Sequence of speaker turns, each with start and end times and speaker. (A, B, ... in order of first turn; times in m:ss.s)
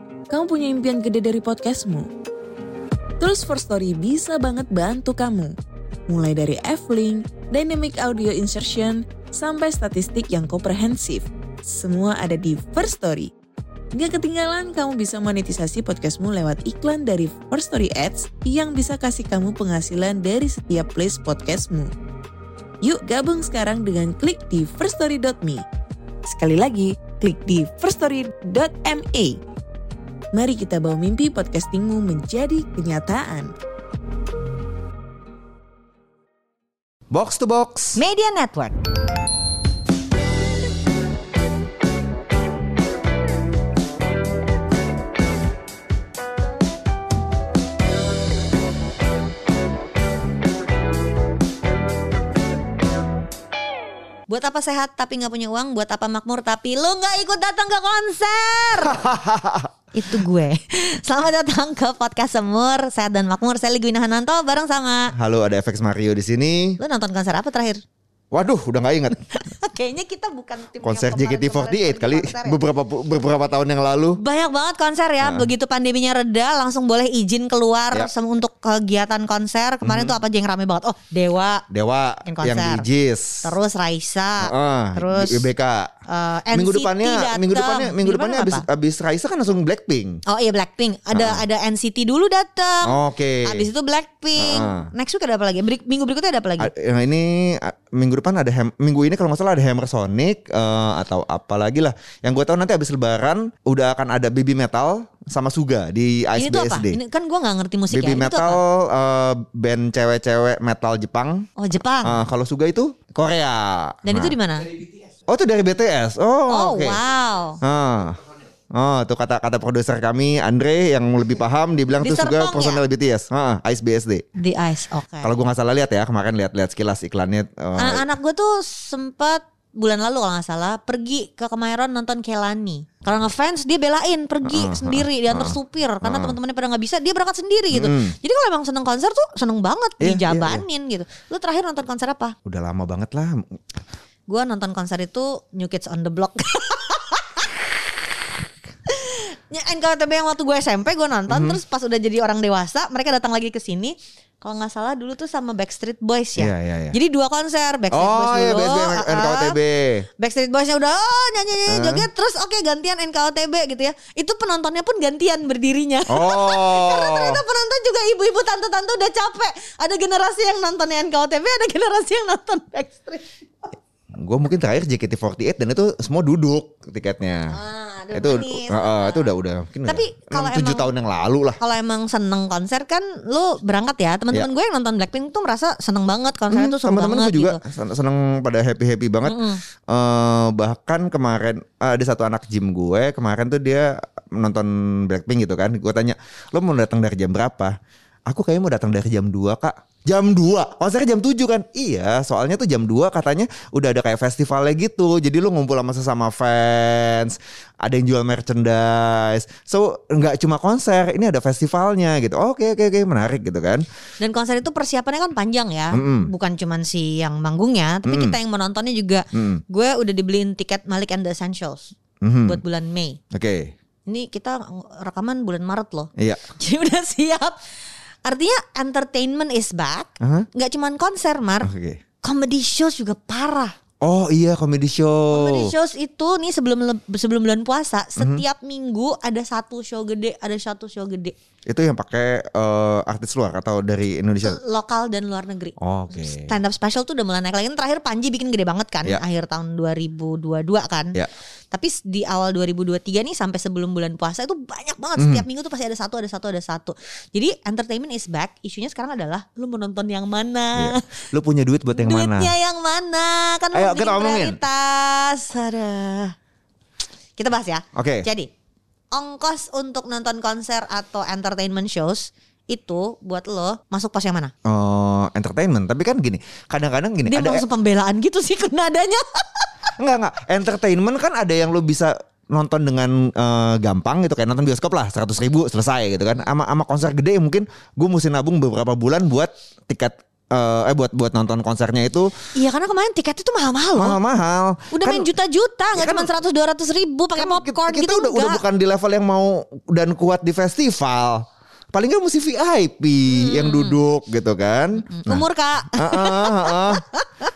0:00.3-0:02.0 A
0:03.2-0:05.5 A
0:06.1-0:13.3 A
0:13.9-0:21.9 A
0:22.8-0:25.6 A
0:26.3-0:29.4 A
0:30.3-0:33.5 A
0:37.1-0:38.0 B
0:37.9-0:38.7 C
0:54.3-0:59.1 C
0:58.8-0:59.7 B
0:59.9-1:05.1 C
1:05.1-1:06.8 B
1:06.8-1:07.8 C
1:08.3-1:09.2 B
1:09.2-1:12.6 C
1:10.8-1:14.2 B
1:14.2-1:21.6 C
1:15.2-1:15.5 B
1:19.8-1:20.2 B
1:21.7-1:23.5 B
1:22.2-1:22.8 C
1:23.4-1:25.5 C
1:24.4-1:25.9 B
1:26.1-1:28.6 C
1:26.5-1:30.2 B
1:30.2-1:36.7 C
1:31.1-1:31.4 B
1:32.8-1:33.7 B
1:34.4-1:34.9 B
1:36.6-1:47.0 B
1:46.4-1:48.6 C
1:47.9-1:51.4 B
1:51.6-1:52.2 C
1:52.0-1:54.4 B
1:54.0-1:54.7 C
1:55.3-1:57.0 B
1:56.5-1:57.6 C
1:57.6-1:58.2 B
1:58.7-2:04.2 B
2:02.0-2:02.8 C
2:04.4-2:05.3 C
2:05.2-2:08.1 B
2:07.8-2:22.3 C
2:14.4-2:16.4 B
2:17.7-2:18.2 B
2:20.0-2:20.6 B
2:22.4-2:23.4 B
2:24.3-2:27.5 C
2:28.9-2:39.6 C
2:31.3-2:31.6 B
2:36.4-2:37.0 B
2:37.9-2:40.0 B
2:40.2-2:53.2 C
2:41.7-2:42.1 B
2:46.1-2:47.4 B
2:54.2-2:57.6 B
2:57.5-2:59.3 C
2:58.1-3:01.6 B
2:59.8-3:00.9 C
3:01.6-3:07.6 C
3:06.5-3:17.8 B
3:09.2-3:09.6 C
3:18.3-3:33.8 B
3:34.2-3:41.9 C
3:35.9-3:36.3 B
3:38.0-3:38.4 B
3:39.3-3:39.6 B
3:42.2-3:42.6 B
3:42.4-3:43.2 C
3:43.3-3:43.7 B
3:44.0-3:47.6 C
3:48.2-3:51.7 C
3:50.2-3:50.5 B
3:51.6-3:52.0 B
3:52.2-3:53.7 C
3:54.0-3:55.7 B
3:55.3-4:01.3 C
3:58.2-3:58.4 B
4:01.7-4:04.6 B
4:04.4-4:11.2 C
4:05.8-4:06.6 B
4:11.7-4:21.0 C
4:15.2-4:15.4 B
4:20.8-4:22.5 B
4:21.9-4:26.3 C
4:23.7-4:24.6 B
4:27.4-4:28.5 C
4:27.9-4:28.3 B
4:29.1-4:34.5 C
4:34.6-4:37.6 B
4:37.2-4:39.7 C
4:40.0-4:52.3 B
4:52.5-4:54.2 C
4:54.0-4:55.3 B
4:54.9-4:58.6 C
4:55.9-4:56.3 B
4:57.4-5:07.0 B
5:03.3-5:04.0 C
5:05.1-5:07.4 C